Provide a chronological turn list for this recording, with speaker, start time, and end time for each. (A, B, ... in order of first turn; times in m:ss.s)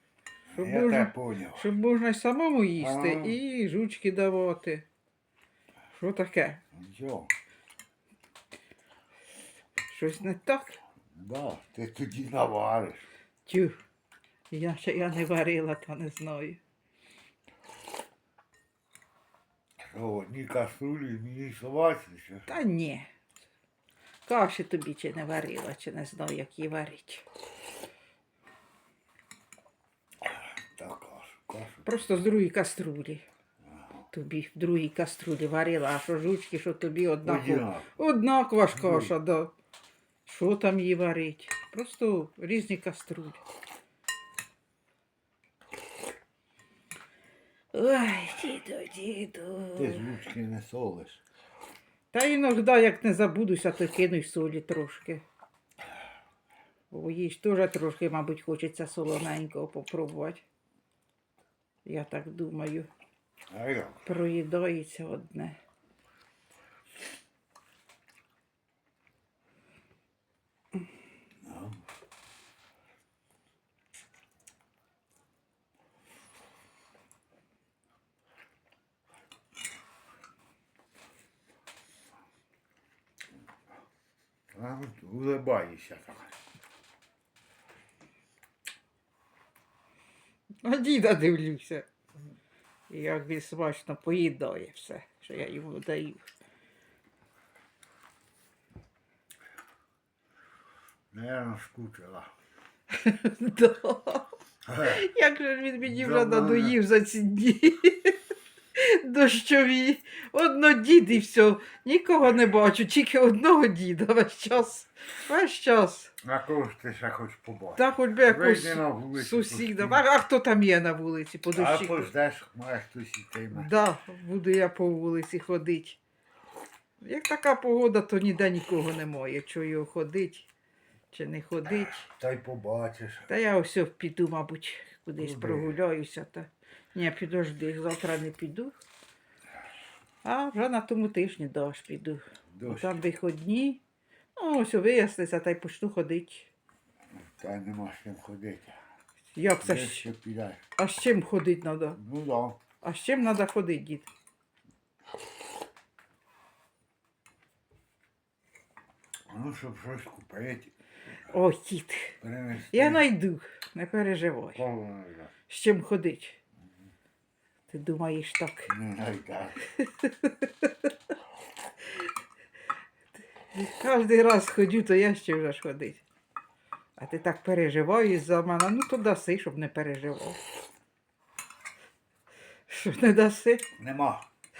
0:00.5-0:01.7 A
0:00.5-0:04.8 B
0:02.8-0:03.4 A
0:05.9-0:06.6 B
0:06.7-0:07.3 A
0:09.9-0:10.8 B
0:11.1-0:13.1 A
0:13.4-0:13.8 B
0:14.5-0:16.6 B
0:19.8-0:22.5 A
0:22.5-0:23.1 B
0:24.2-0:27.2 B
0:30.2-0:32.2 A
0:31.8-0:33.2 B
0:33.6-0:34.0 A
0:34.1-0:39.5 B
0:37.2-0:37.9 A
0:38.7-0:39.1 A
0:40.2-0:43.4 B
0:47.7-0:50.0 B
0:49.8-0:51.2 A
0:52.1-0:55.2 B
0:56.9-1:00.4 B
1:01.8-1:02.9 B
1:03.5-1:04.0 A
1:04.0-1:05.6 B
1:11.4-1:11.8 A
1:24.5-1:26.4 A
1:30.6-1:31.9 B
1:32.9-1:36.2 B
1:41.1-1:42.3 A
1:42.9-1:44.3 B
1:44.6-1:45.0 A
1:44.8-1:48.2 B
1:45.8-1:46.8 A
1:48.8-1:56.1 B
1:56.2-2:00.0 A
1:57.8-2:02.1 B
2:01.5-2:03.7 A
2:03.5-2:06.0 B
2:07.0-2:10.5 B
2:11.1-2:12.0 B
2:11.8-2:13.3 A
2:13.3-2:18.8 B
2:15.2-2:15.7 A
2:20.2-2:23.8 B
2:22.5-2:22.9 A
2:24.4-2:26.5 B
2:27.2-2:28.8 A
2:29.3-2:30.1 B
2:29.6-2:30.6 A
2:30.8-2:32.0 B
2:32.0-2:32.6 A
2:32.8-2:34.1 B
2:39.3-2:40.7 A
2:41.3-2:42.2 B
2:42.2-2:43.0 A
2:42.7-2:44.6 B
2:44.5-2:45.3 A
2:45.5-2:46.4 B
2:47.7-2:48.7 B
2:48.7-2:49.6 A
2:49.8-2:50.9 B
2:53.5-2:56.0 B
2:57.0-3:00.4 B
3:02.7-3:03.6 B
3:03.8-3:04.2 A